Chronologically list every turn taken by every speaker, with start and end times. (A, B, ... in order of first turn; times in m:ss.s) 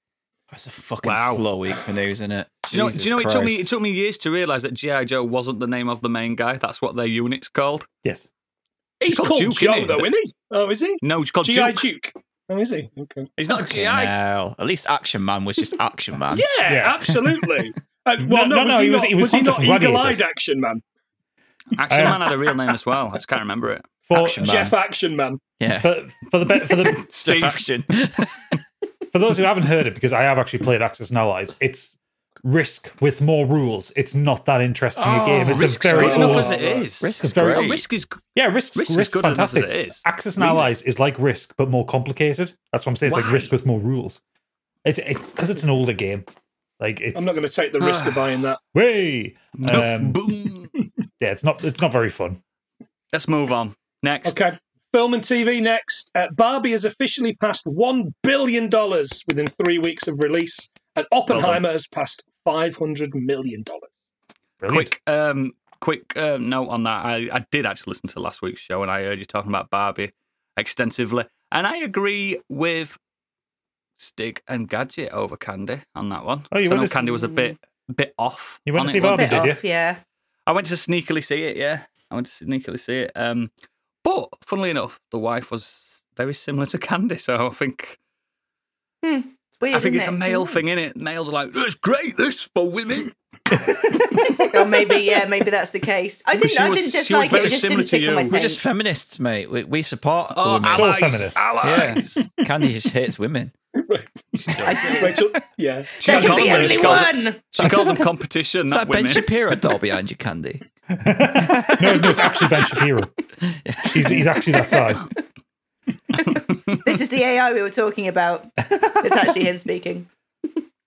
0:00.5-0:03.7 A
0:01.0-0:01.4 B
0:02.7-0:07.9 B
0:09.0-0:13.3 C
0:09.0-0:10.1 B
0:11.0-0:11.8 B
0:13.4-0:14.1 B
0:13.6-0:16.5 A
0:16.3-0:20.8 C
0:16.7-0:17.4 D
0:18.2-0:20.2 D
0:21.7-0:23.9 B
0:21.9-0:22.3 D
0:24.1-0:24.6 D
0:24.1-0:24.8 A
0:24.4-0:25.4 C
0:25.6-0:25.9 A
0:25.8-0:27.1 D
0:27.0-0:27.6 B
0:27.1-0:28.3 A
0:29.1-0:36.6 D
0:35.0-0:37.8 A
0:35.5-0:38.2 B
0:35.9-0:36.8 C
0:37.2-0:44.2 D
0:38.7-0:40.6 B
0:43.0-0:43.5 B
0:44.8-0:46.3 D
0:46.8-0:47.3 D
0:47.1-0:48.6 C
0:47.8-0:48.4 B
0:48.7-0:50.2 D
0:49.6-0:50.7 B
0:51.2-0:52.4 D
0:53.1-0:54.4 B
0:54.2-1:03.9 C
1:01.3-1:01.6 B
1:04.6-1:05.0 D
1:04.6-1:13.0 B
1:14.0-1:19.6 B
1:16.5-1:17.1 D
1:17.1-1:17.5 E
1:18.7-1:19.6 D
1:19.0-1:20.0 E
1:20.5-1:23.5 B
1:24.0-1:28.0 B
1:29.0-1:30.6 E
1:29.7-1:33.1 B
1:33.5-1:34.0 D
1:34.1-1:38.6 E
1:34.3-1:34.9 C
1:36.4-1:38.4 B
1:38.3-1:41.1 A
1:40.3-1:42.3 B
1:40.6-1:41.4 D
1:41.6-1:43.5 A
1:43.8-1:44.2 C
1:44.3-1:45.1 B
1:44.7-1:45.3 E
1:45.0-1:47.1 C
1:46.0-1:49.3 B
1:46.0-1:47.4 E
1:47.6-1:47.9 A
1:48.7-1:50.6 A
1:51.0-1:53.1 D
1:51.3-1:52.4 A
1:53.4-1:54.3 A
1:53.8-1:55.1 D
1:56.2-2:00.6 E
1:58.8-1:59.1 D